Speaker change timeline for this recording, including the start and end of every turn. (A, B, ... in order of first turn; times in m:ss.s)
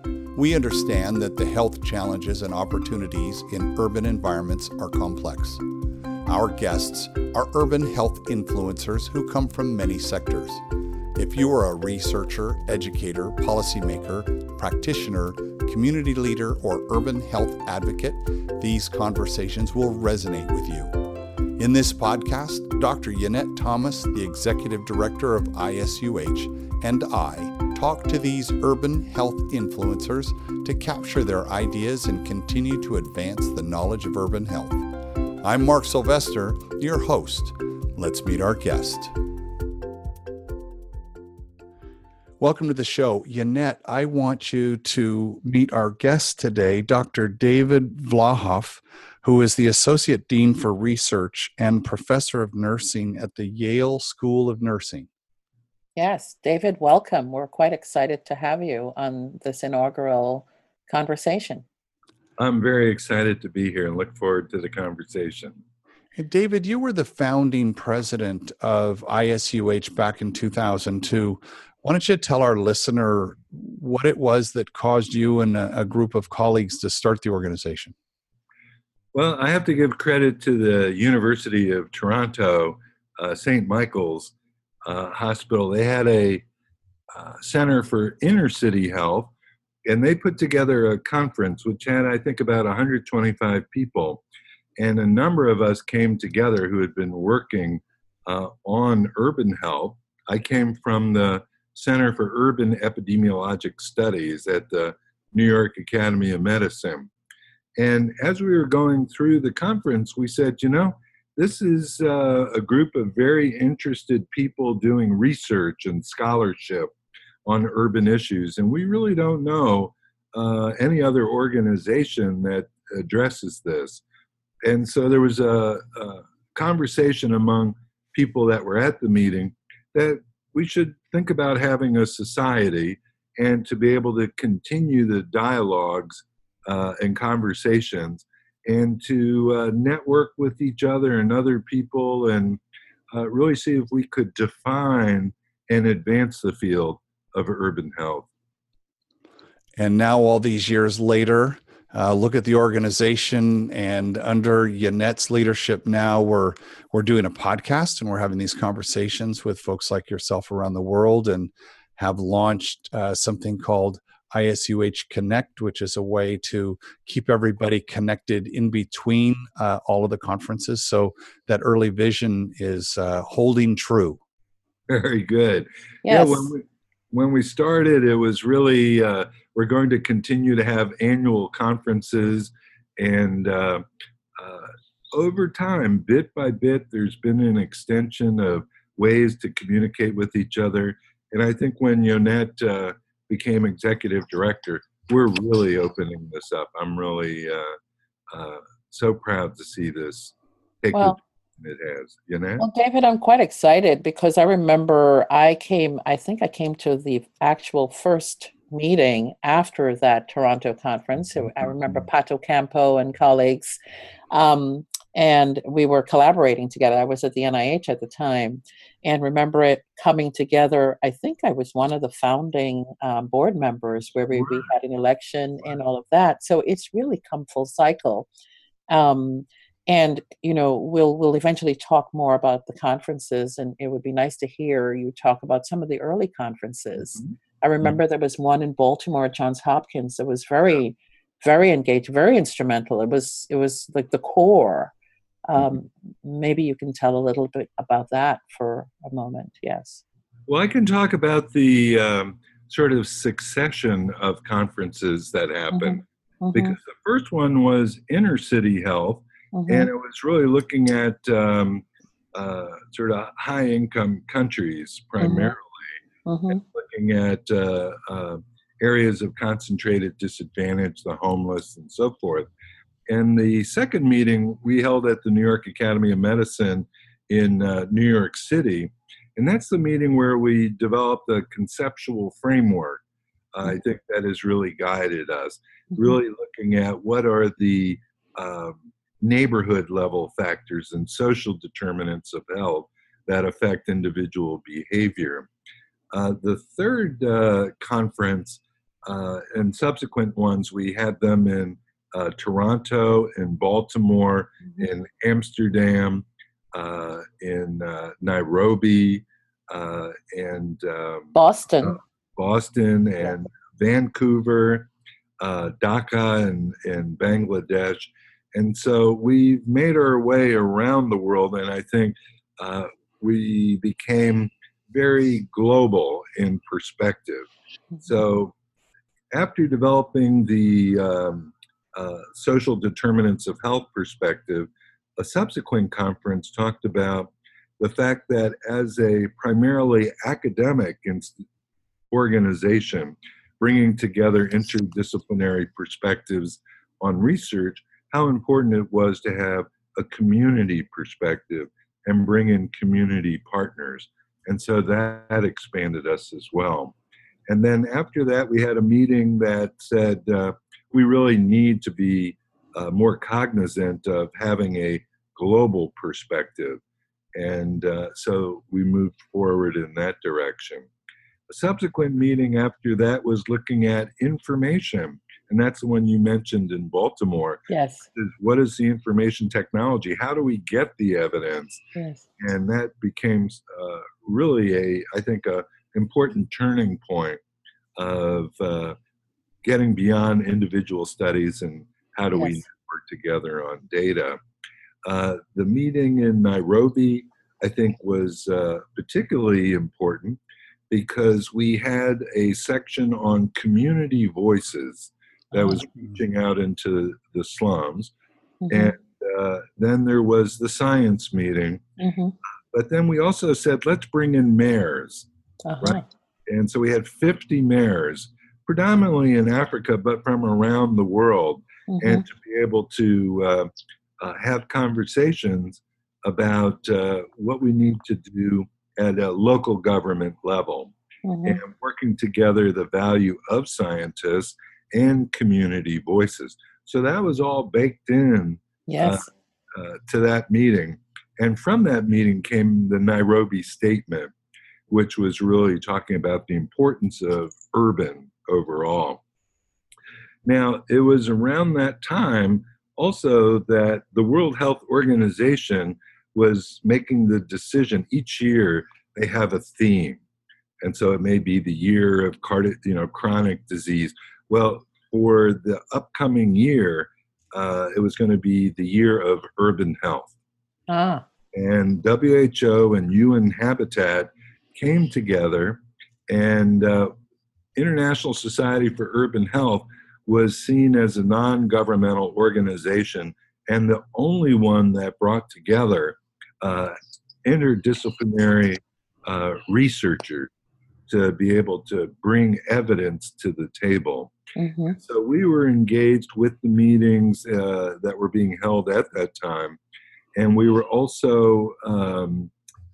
0:00.3-0:05.6 A
0:06.2-0:10.6 A
0:11.1-0:21.0 A
0:21.6-0:34.8 A
0:35.4-0:39.1 A
0:42.4-0:55.1 A
0:56.0-1:01.6 B
1:02.4-1:05.6 C
1:06.2-1:17.9 A
1:19.1-1:24.3 C
1:24.8-1:26.4 C
1:27.1-1:29.3 C
1:29.8-1:34.2 C
1:34.8-1:47.1 C
1:47.8-1:56.9 C
1:57.4-2:04.0 C
2:04.6-2:22.6 C
2:23.1-2:28.3 C
2:29.8-2:54.2 A
2:54.9-3:03.8 C
2:56.0-2:56.5 B
3:04.4-3:17.7 C
3:18.3-3:22.6 C
3:22.6-3:33.8 B
3:34.3-3:48.3 B
3:44.3-3:44.7 C
3:48.9-4:04.9 B
4:05.5-4:10.0 B
4:10.5-4:25.8 C
4:15.7-4:16.8 B
4:19.5-4:19.9 B
4:25.2-4:25.5 B
4:26.2-4:26.6 B
4:26.5-4:32.5 C
4:33.1-4:43.0 C
4:43.5-4:55.5 C
4:45.9-4:46.2 B
4:56.1-5:27.5 C
5:11.4-5:12.0 B
5:28.0-5:28.5 C
5:29.3-5:41.4 C
5:42.1-5:56.9 C
5:57.5-6:06.8 C
6:07.3-6:10.9 C
6:11.5-6:17.6 C
6:17.7-6:18.0 B
6:18.1-6:21.8 C
6:21.9-6:22.2 B
6:22.4-6:27.4 C
6:28.0-6:29.0 C
6:29.6-6:34.4 C
6:32.3-6:32.6 B
6:35.0-6:48.1 C
6:48.6-6:48.9 B
6:48.7-6:51.8 C
6:52.0-6:52.3 B
6:52.7-6:55.3 C
6:55.6-6:56.0 B
6:55.8-7:10.9 C
7:01.9-7:02.2 B
7:11.2-7:11.6 B
7:11.4-7:24.3 C
7:18.9-7:19.3 B
7:24.9-7:29.2 C
7:30.4-7:40.2 C
7:40.8-7:50.3 C
7:50.9-7:51.2 B
7:51.5-7:57.1 C
7:57.8-8:10.5 C
8:11.1-8:14.3 C
8:14.6-8:15.0 B
8:15.0-8:19.8 C
8:20.4-8:22.5 C